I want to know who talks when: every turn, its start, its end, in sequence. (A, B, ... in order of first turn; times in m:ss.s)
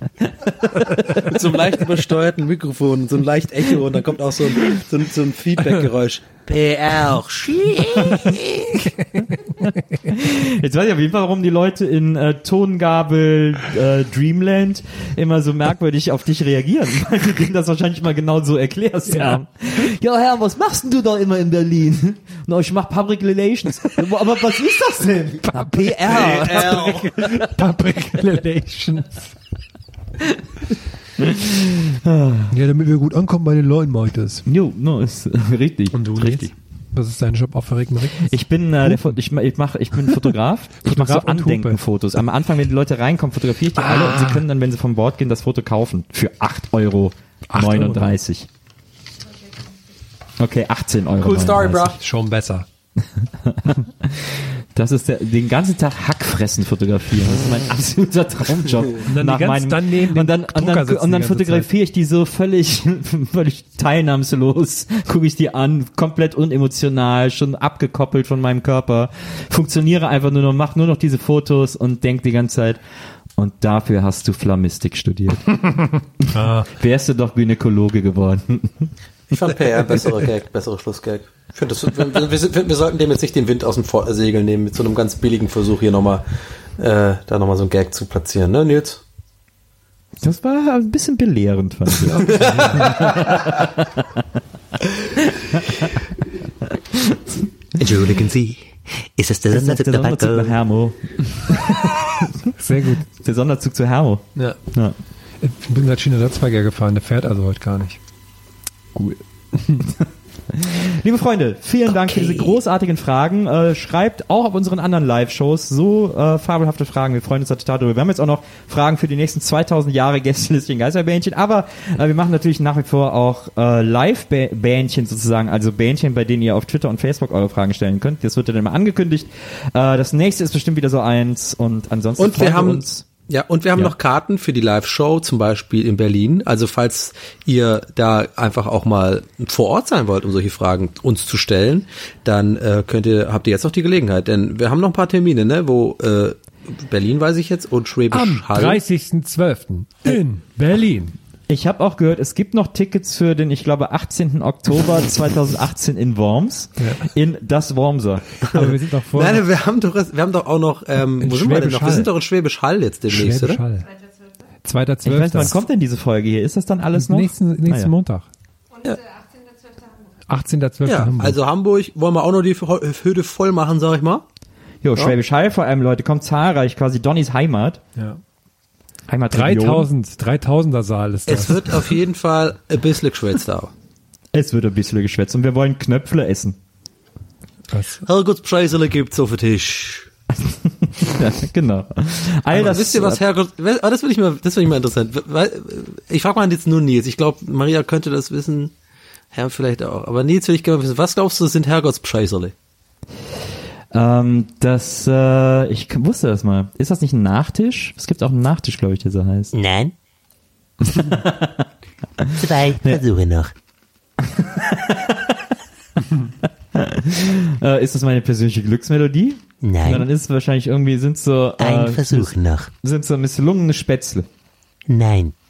0:00.5-0:01.1 A
0:01.1-0:07.6 B
0:08.1-0:08.5 A
0:10.1-0:27.4 A
0:19.1-0:19.4 C
0:25.5-0:29.3 C
0:26.2-0:27.0 B
0:31.2-0:32.5 A
0:32.5-0:34.4 C
0:34.4-0:36.5 A
0:35.9-0:39.1 C
0:38.2-0:48.5 A
0:40.8-0:41.8 C
0:43.8-0:44.4 C
0:47.5-0:48.1 C
0:50.4-0:52.0 A
0:51.2-0:52.0 B
0:51.9-0:52.6 C
0:53.0-1:12.8 A
0:59.1-1:01.7 C
1:13.4-1:15.6 A
1:16.2-1:18.9 A
1:16.3-1:16.7 C
1:19.3-1:26.2 B
1:26.8-1:29.0 B
1:30.2-1:34.2 A
1:32.2-1:32.9 C
1:32.3-1:33.3 B
1:35.2-1:36.1 A
1:36.7-1:37.4 A
1:37.8-1:40.6 D
1:39.5-1:42.5 A
1:42.6-1:43.0 C
1:43.2-1:45.0 A
1:45.4-1:48.0 C
1:49.6-1:49.8 C
1:49.8-2:13.0 A
1:52.0-1:52.5 D
2:12.2-2:28.8 B
2:28.1-2:31.1 C
2:31.5-2:38.3 A
2:36.8-2:37.0 C
2:38.5-2:43.6 B
2:38.5-2:39.4 C
2:41.2-2:42.1 C
2:43.1-2:43.9 C
2:44.6-2:45.6 C
2:45.0-2:47.9 A
2:46.9-2:48.3 C
2:50.3-2:51.4 C
2:50.8-2:54.2 B
2:54.8-2:57.8 A
2:59.1-2:59.9 A
2:59.3-3:01.9 C
3:01.3-3:03.7 B
3:04.3-3:06.6 A
3:07.7-3:08.0 C
3:08.0-3:10.1 B
3:10.3-3:13.2 A
3:12.5-3:18.7 B
3:19.3-3:22.5 B
3:23.9-3:29.5 A
3:29.5-3:29.9 D
3:30.8-3:31.6 A
3:32.2-3:33.0 A
3:32.4-3:33.5 D
3:34.2-3:35.4 A
3:36.4-3:44.3 A
3:39.6-3:40.1 D
3:41.6-3:42.7 D
3:44.9-3:45.3 D